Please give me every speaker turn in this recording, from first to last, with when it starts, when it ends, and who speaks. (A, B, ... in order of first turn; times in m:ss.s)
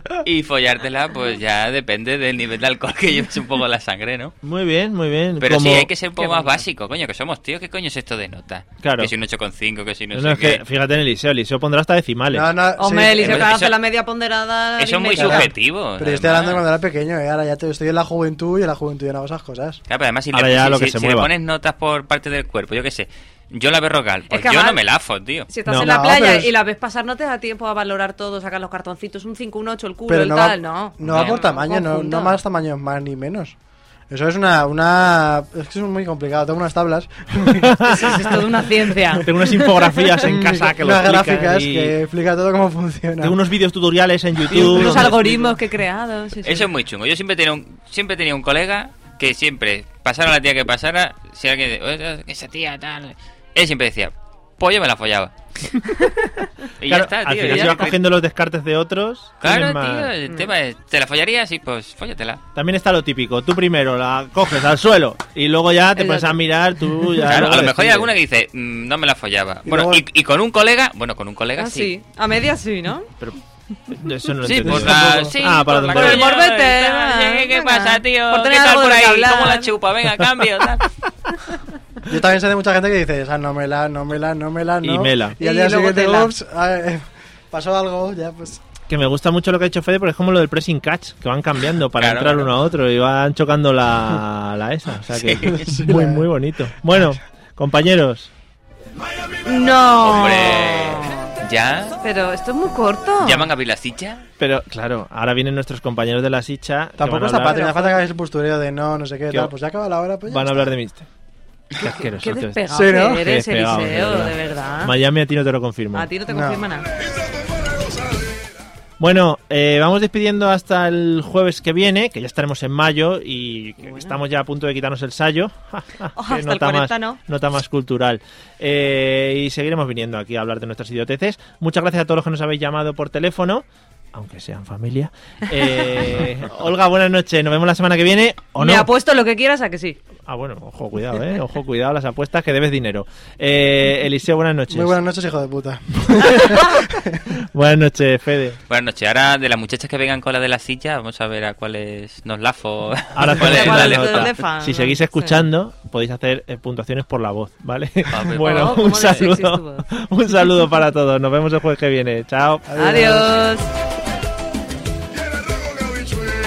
0:00.2-0:04.3 A
0:04.4-0:05.9 B
0:05.4-0:10.6 A
0:06.2-0:06.6 C
0:08.8-0:09.1 B
0:10.1-0:12.5 B
0:12.3-0:13.4 D
0:12.8-0:15.5 C
0:13.2-0:13.8 A
0:14.8-0:16.6 A
0:15.2-0:19.8 D
0:19.9-0:25.5 A
0:20.3-0:21.3 B
0:24.3-0:24.8 C
0:25.5-0:32.4 C
0:25.8-0:26.5 D
0:30.1-0:33.5 D
0:31.0-0:31.4 A
0:34.1-0:38.1 D
0:37.6-0:38.2 B
0:37.8-0:40.2 C
0:39.2-0:41.9 B
0:40.2-0:43.4 D
0:43.2-0:45.4 B
0:44.5-0:46.7 C
0:46.4-0:55.3 A
0:56.8-0:58.0 A
0:56.9-1:00.1 B
0:57.5-0:57.9 C
0:59.4-1:02.4 A
1:02.5-1:08.1 B
1:06.0-1:06.4 C
1:07.2-1:11.9 A
1:09.6-1:10.0 D
1:11.6-1:13.1 C
1:13.9-1:16.3 B
1:14.4-1:20.8 A
1:15.9-1:19.7 C
1:22.1-1:28.6 D
1:24.8-1:25.4 B
1:25.4-1:26.3 C
1:28.9-1:38.3 B
1:32.0-1:32.5 A
1:35.2-1:35.6 A
1:35.6-1:36.3 D
1:39.4-1:41.3 C
1:40.0-1:42.0 A
1:42.0-1:43.5 C
1:43.2-1:44.2 A
1:44.4-1:47.6 B
1:47.0-1:50.5 D
1:47.4-1:48.0 C
1:50.3-1:51.1 B
1:51.8-1:54.9 C
1:51.8-1:56.1 B
1:52.7-1:53.2 D
1:55.9-1:56.9 C
1:56.3-1:56.7 D
1:59.0-2:18.9 B
2:03.8-2:04.2 C
2:06.2-2:07.2 C
2:15.5-2:16.1 C
2:18.6-2:20.0 C
2:20.2-2:25.0 B
2:24.7-2:27.2 D
2:26.2-2:26.7 B
2:27.5-2:28.6 B
2:28.7-2:34.3 A
2:33.2-2:42.7 B
2:33.4-2:35.4 C
2:38.1-2:38.6 A
2:38.4-2:39.8 C
2:42.7-2:43.4 D
2:42.8-2:43.7 C